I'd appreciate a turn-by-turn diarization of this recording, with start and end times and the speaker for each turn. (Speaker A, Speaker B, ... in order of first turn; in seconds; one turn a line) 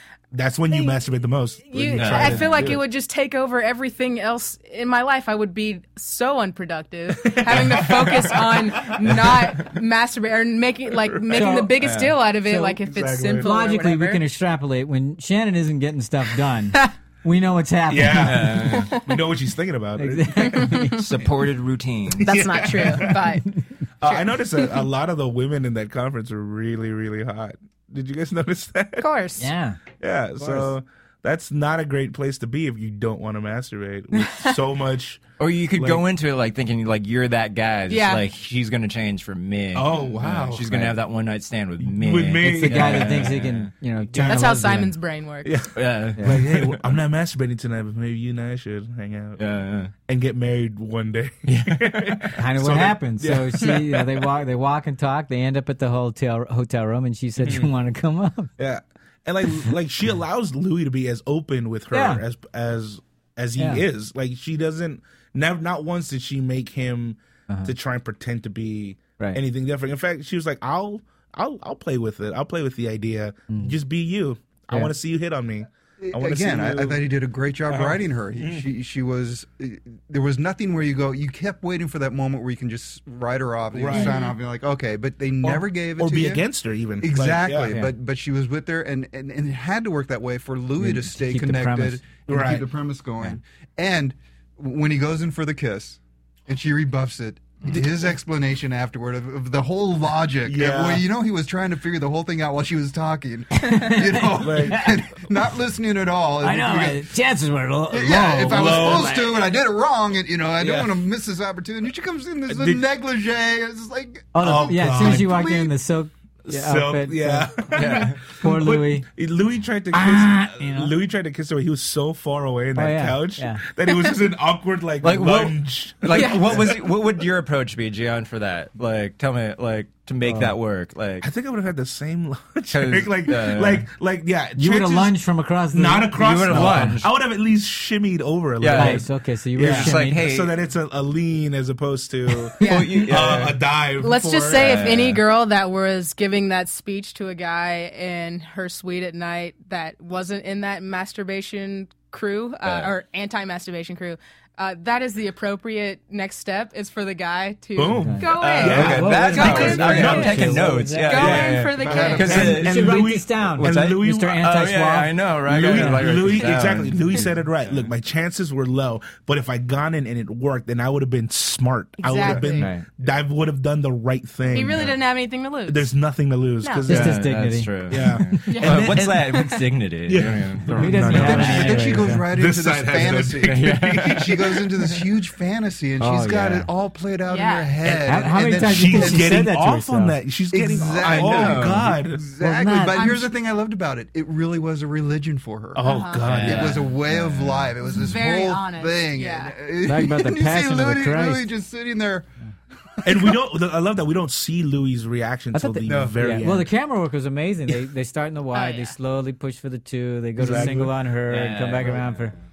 Speaker A: 0.3-2.8
Speaker B: 0.7-1.0
Speaker B: 1.7-14.2
Speaker C: 2.0-2.8
Speaker A: 7.3-9.1
Speaker A: 11.1-11.9
Speaker D: 11.3-11.9
Speaker C: 11.8-12.2
Speaker D: 12.4-12.8
Speaker A: 12.8-13.5
Speaker D: 13.4-18.7
Speaker A: 17.9-21.0
Speaker C: 18.2-18.9
Speaker D: 20.0-21.0
Speaker B: 20.6-21.0
Speaker C: 20.9-22.4
Speaker A: 22.2-23.4
Speaker B: 22.2-24.8
Speaker A: 24.0-29.1
Speaker B: 29.0-29.5
Speaker D: 29.4-29.8
Speaker A: 30.0-36.1
Speaker D: 30.4-30.7
Speaker B: 34.2-34.6
Speaker C: 35.4-43.7
Speaker B: 37.9-38.2
Speaker A: 39.7-41.0
Speaker A: 41.8-43.4
Speaker D: 42.4-44.9
Speaker A: 44.1-44.4
Speaker B: 44.2-45.6
Speaker A: 45.4-49.4
Speaker C: 45.8-46.2
Speaker D: 46.2-46.4
Speaker C: 49.4-49.9
Speaker A: 50.1-54.3
Speaker C: 51.5-52.3
Speaker D: 52.4-58.5
Speaker A: 57.4-57.7
Speaker A: 58.6-77.1
Speaker D: 61.9-62.2
Speaker D: 63.6-63.8
Speaker D: 73.5-73.8
Speaker E: 76.0-86.5
Speaker A: 77.7-78.7
Speaker A: 83.7-84.2
Speaker B: 84.0-84.2
Speaker A: 85.4-87.8
Speaker E: 87.0-107.1
Speaker D: 90.8-92.0
Speaker A: 92.3-92.7
Speaker A: 100.5-101.1
Speaker D: 103.6-104.9
Speaker A: 104.3-105.0
Speaker D: 106.4-109.5
Speaker E: 107.9-115.7
Speaker A: 108.4-109.2
Speaker C: 110.6-110.9
Speaker A: 112.5-112.8
Speaker D: 114.3-117.8
Speaker A: 114.4-115.5
Speaker A: 116.5-126.8
Speaker C: 117.7-118.2
Speaker D: 118.3-119.1
Speaker D: 119.9-120.9
Speaker D: 122.8-123.6
Speaker C: 125.0-131.3
Speaker B: 126.1-126.5
Speaker D: 130.3-130.5
Speaker A: 131.2-135.2
Speaker C: 132.7-133.9
Speaker D: 134.6-137.0
Speaker A: 135.7-145.0
Speaker C: 136.2-137.1
Speaker C: 138.6-139.1
Speaker D: 138.8-140.2
Speaker C: 139.6-140.5
Speaker C: 142.6-143.6
Speaker B: 142.6-143.1
Speaker B: 144.0-162.7
Speaker C: 144.5-145.2
Speaker C: 152.6-152.9
Speaker A: 157.8-164.4
Speaker D: 157.9-161.4
Speaker C: 158.4-163.1
Speaker E: 161.8-162.5
Speaker D: 162.2-166.2
Speaker C: 163.6-167.9
Speaker A: 165.5-175.0
Speaker B: 172.0-172.7
Speaker D: 172.6-172.9
Speaker B: 174.5-175.9
Speaker A: 175.7-177.3
Speaker B: 176.6-177.0
Speaker D: 176.9-177.7
Speaker C: 176.9-181.7
Speaker A: 177.9-184.6
Speaker B: 178.5-179.0
Speaker D: 180.8-182.2
Speaker E: 181.1-189.4
Speaker C: 183.4-184.3
Speaker D: 186.0-186.7
Speaker B: 187.3-187.8
Speaker A: 187.8-192.2
Speaker D: 188.0-190.2
Speaker E: 190.5-195.9
Speaker C: 191.1-191.9
Speaker D: 192.4-193.3
Speaker B: 192.9-193.3
Speaker A: 195.8-196.9
Speaker B: 195.8-196.4
Speaker C: 196.2-197.3
Speaker E: 196.4-202.3
Speaker B: 197.9-199.6
Speaker D: 199.8-201.5
Speaker A: 203.0-206.7
Speaker E: 203.1-203.3
Speaker D: 205.5-212.3
Speaker E: 205.9-206.4
Speaker B: 208.5-208.9
Speaker A: 210.4-211.0
Speaker C: 211.3-212.4